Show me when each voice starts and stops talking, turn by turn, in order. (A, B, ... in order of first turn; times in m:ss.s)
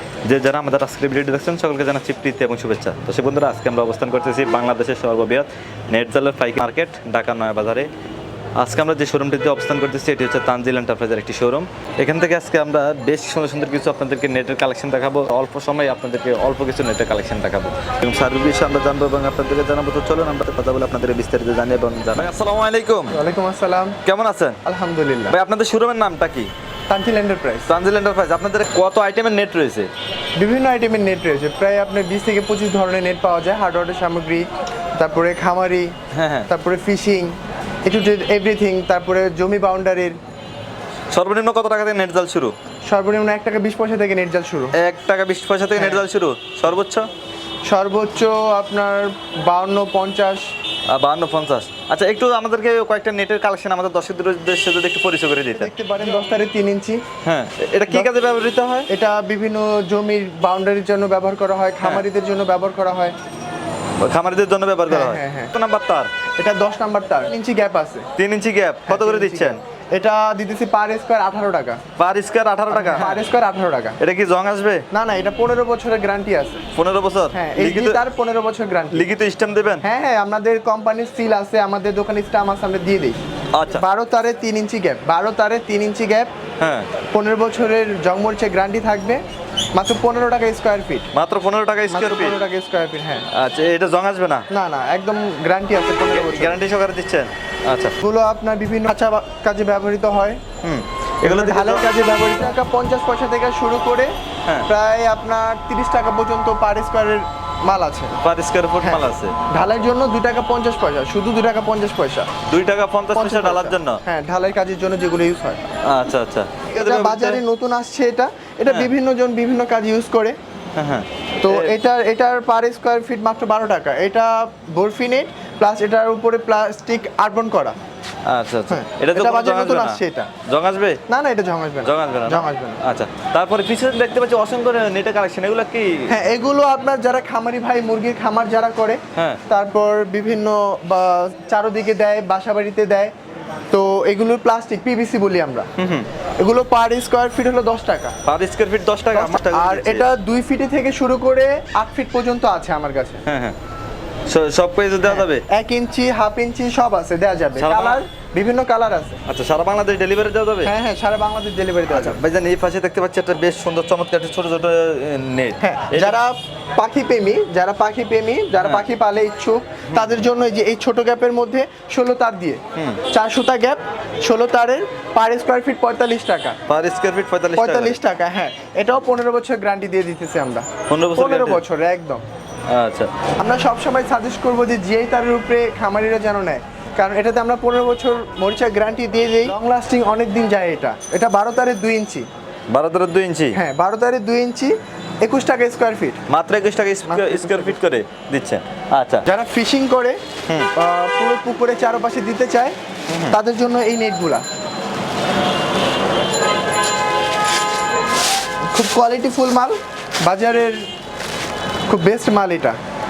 0:00.3-0:07.9 A
0:08.6-0:23.2 A
0:23.1-0:24.0 B
0:24.0-0:24.6 A
0:24.6-0:25.4 B
0:25.3-0:26.5 A
0:26.9-0:27.7 B
0:27.7-0:29.9 A
0:30.4-0:35.9 B
0:36.1-0:36.5 A
0:36.5-0:40.2 B
0:41.1-0:42.5 A
0:42.8-0:44.8 B
0:44.7-0:47.1 A
0:45.8-0:46.0 B
0:47.6-0:50.5 B
0:50.9-0:55.7 A
0:55.5-0:57.0 B
0:57.2-0:58.9 A
0:58.9-1:03.1 B
1:04.0-1:06.1 A
1:04.9-1:05.5 B
1:06.4-1:08.0 B
1:08.2-1:09.6 A
1:08.8-1:11.8 B
1:12.0-1:13.2 A
1:12.7-1:14.0 B
1:14.0-1:14.8 A
1:14.9-1:16.6 B
1:16.7-1:18.0 A
1:17.3-1:19.1 B
1:18.9-1:19.8 A
1:19.8-1:23.2 B
1:23.5-1:23.8 A
1:23.7-1:26.3 B
1:26.6-1:26.9 A
1:27.1-1:29.2 B
1:29.7-1:31.1 B
1:31.1-1:32.4 A
1:31.9-1:33.3 B
1:33.3-1:34.5 A
1:34.5-1:36.6 B
1:36.1-1:38.0 A
1:38.0-1:40.4 B
1:40.6-1:41.8 A
1:41.2-1:44.1 B
1:44.7-1:48.2 B
1:48.2-1:49.3 A
1:48.8-1:52.3 B
1:52.5-1:54.0 A
1:53.1-1:55.6 B
1:55.8-1:57.4 A
1:56.7-2:00.4 B
2:00.8-2:01.7 A
2:01.4-2:07.8 B
2:08.3-2:11.0 A
2:08.7-2:10.3 B
2:11.1-2:12.8 B
2:11.8-2:16.1 A
2:16.1-2:23.1 B
2:19.1-2:19.4 A
2:23.7-2:25.7 B
2:25.8-2:26.1 A
2:26.4-2:28.1 B
2:28.2-2:30.0 A
2:29.1-2:33.2 B
2:33.2-2:33.6 A
2:34.3-2:35.4 A
2:35.0-2:39.2 B
2:37.6-2:38.0 A
2:39.2-2:40.7 A
2:40.6-2:42.2 B
2:41.9-2:46.2 A
2:45.6-2:56.6 B
2:49.9-2:50.1 A
2:56.7-2:58.0 A
2:57.6-3:02.2 B
3:00.9-3:01.6 A
3:02.7-3:03.1 A
3:03.4-3:12.3 B
3:12.7-3:13.6 A
3:13.5-3:16.2 B
3:16.3-3:19.3 A
3:17.0-3:17.8 B
3:19.2-3:20.2 B
3:20.7-3:22.8 B
3:23.1-3:23.4 A
3:23.3-3:24.4 B
3:28.7-3:30.9 B
3:31.9-3:32.8 B